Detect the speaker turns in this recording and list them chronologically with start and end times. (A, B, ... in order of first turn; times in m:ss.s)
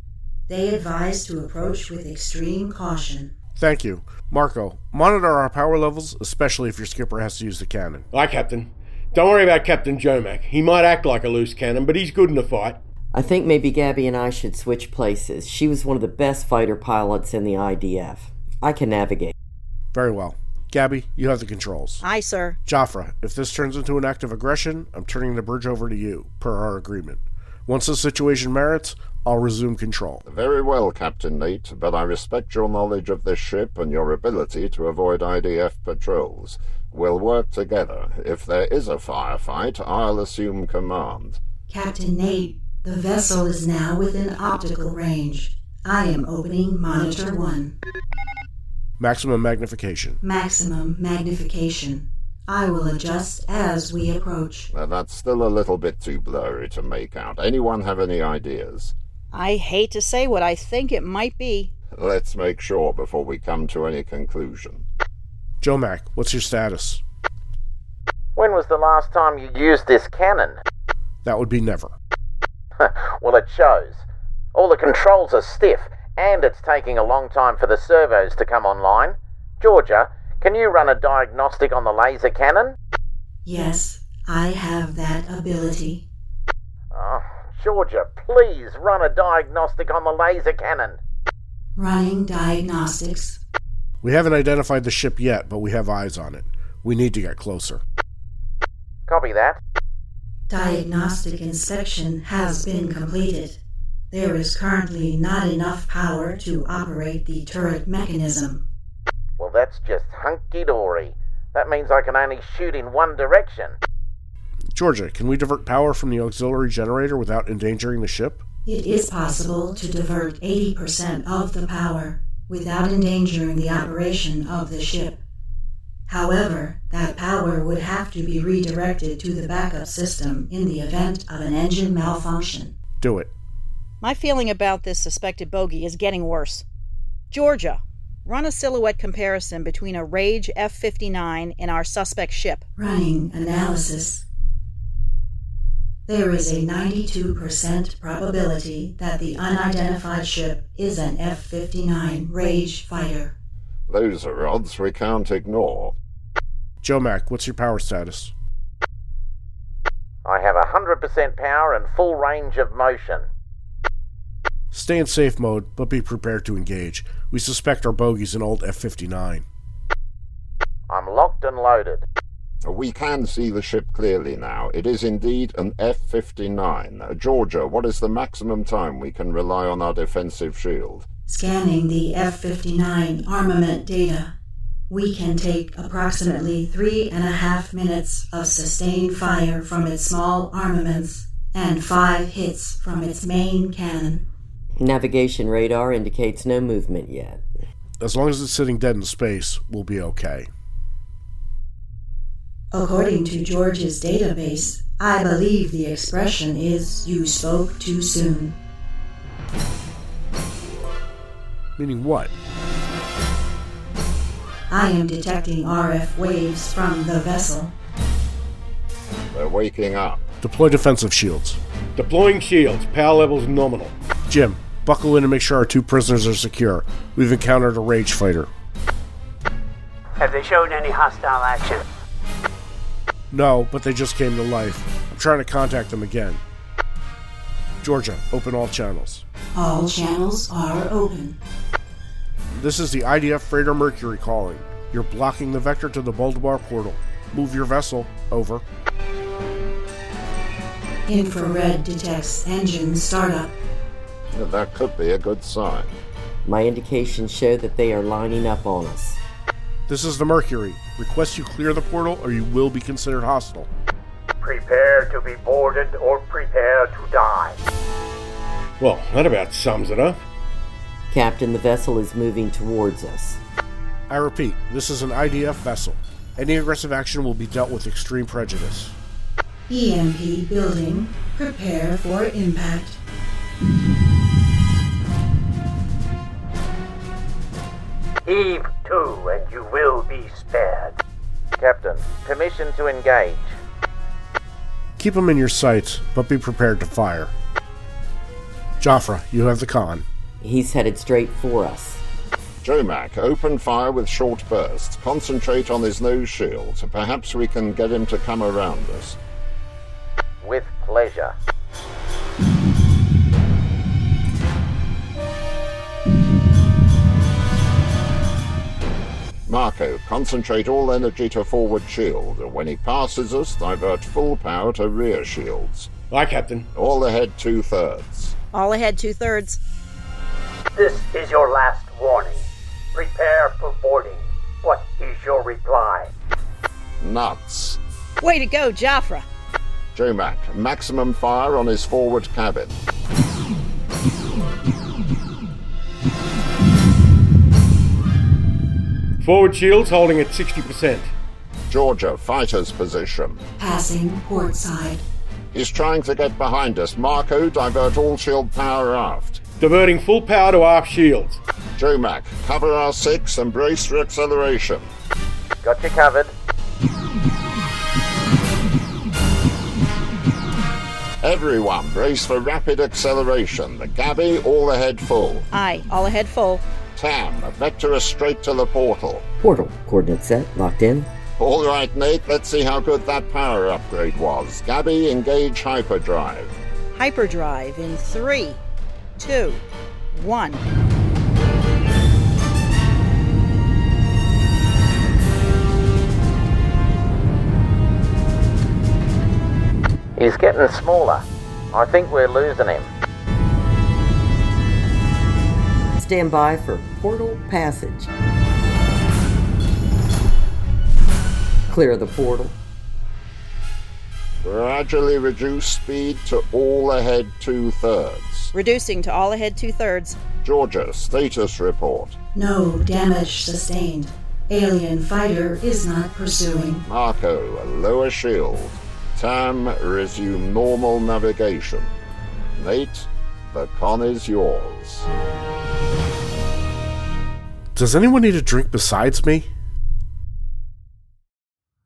0:00.5-0:03.3 A
0:03.6-0:08.0 B
0:08.1-0:12.8 C
0:13.1-0:19.3 D
0:19.9-0:22.0 B
0:22.0-0:22.6 E
0:22.6-0:30.2 B
0:30.2-0:41.4 F
0:41.7-0:47.7 A
0:49.0-0:50.2 B
0:50.2-0:54.7 A
0:54.7-0:58.9 F
0:59.3-1:01.7 E
1:01.9-1:04.8 F
1:05.6-1:07.0 B
1:08.4-1:10.6 G
1:11.2-1:11.9 B
1:12.8-1:14.0 G
1:14.5-1:22.8 G
1:23.4-1:26.0 A
1:26.9-1:31.0 G
1:31.8-1:33.4 A
1:34.0-1:37.8 B
1:39.1-1:39.6 G
1:40.5-1:43.6 A
1:44.1-1:48.6 A
1:49.4-1:53.8 G
1:54.7-1:58.4 B
1:58.6-2:05.2 A
2:06.1-2:12.8 A
2:13.0-2:13.3 B
2:14.0-2:16.6 E
2:17.3-2:22.6 E
2:22.8-2:24.2 A
2:26.1-2:33.3 A
2:33.9-2:35.9 F
2:36.8-2:38.3 B
2:40.2-2:43.2 G
2:44.7-2:49.4 B
2:50.9-2:52.0 G
2:52.6-3:01.0 F
3:01.3-3:04.3 A
3:04.9-3:14.2 A
3:14.8-3:17.5 D
3:18.0-3:20.5 B
3:22.7-3:28.6 A
3:31.8-3:32.3 B
3:34.7-3:37.7 A
3:39.3-3:40.2 F
3:40.4-3:41.6 B
3:42.0-3:43.9 C
3:44.3-3:48.5 B
3:50.2-3:51.8 H
3:53.3-3:56.4 B
3:57.8-3:59.2 B
3:59.5-4:01.4 A
4:02.5-4:08.6 B
4:11.1-4:13.6 A
4:14.3-4:16.0 F
4:16.4-4:19.2 D
4:19.9-4:23.7 B
4:24.4-4:27.6 H
4:28.8-4:30.2 C
4:31.1-4:33.4 D
4:34.1-4:38.9 B
4:39.7-4:43.0 A
4:48.2-4:51.0 H
4:51.6-4:53.5 G
4:55.0-4:57.3 B
4:58.8-5:00.0 B
5:00.4-5:02.0 D
5:02.6-5:09.2 F
5:10.4-5:11.3 G
5:19.4-5:25.9 F
5:26.1-5:26.7 C
5:26.7-5:28.3 F
5:28.5-5:29.6 E
5:30.8-5:36.1 H
5:37.0-5:37.8 F
5:38.2-5:39.2 E
5:39.9-5:42.8 F
5:49.2-5:51.1 C
5:51.7-5:53.4 F
5:53.6-5:55.0 A
5:55.5-5:59.4 F
5:59.6-6:01.4 C
6:01.8-6:04.9 F
6:05.6-6:06.3 G
6:11.2-6:15.5 F
6:15.5-6:16.6 E
6:16.9-6:19.2 F
6:19.4-6:21.1 D
6:21.4-6:26.6 F
6:26.9-6:28.6 E
6:29.2-6:30.6 E
6:40.2-6:42.9 G
6:46.0-6:48.1 D
6:51.7-6:52.5 D
6:54.4-6:58.5 F
6:58.5-7:00.2 E
7:00.4-7:02.2 F
7:02.3-7:06.8 A
7:06.8-7:11.9 F
7:12.6-7:15.1 F
7:17.7-7:19.5 B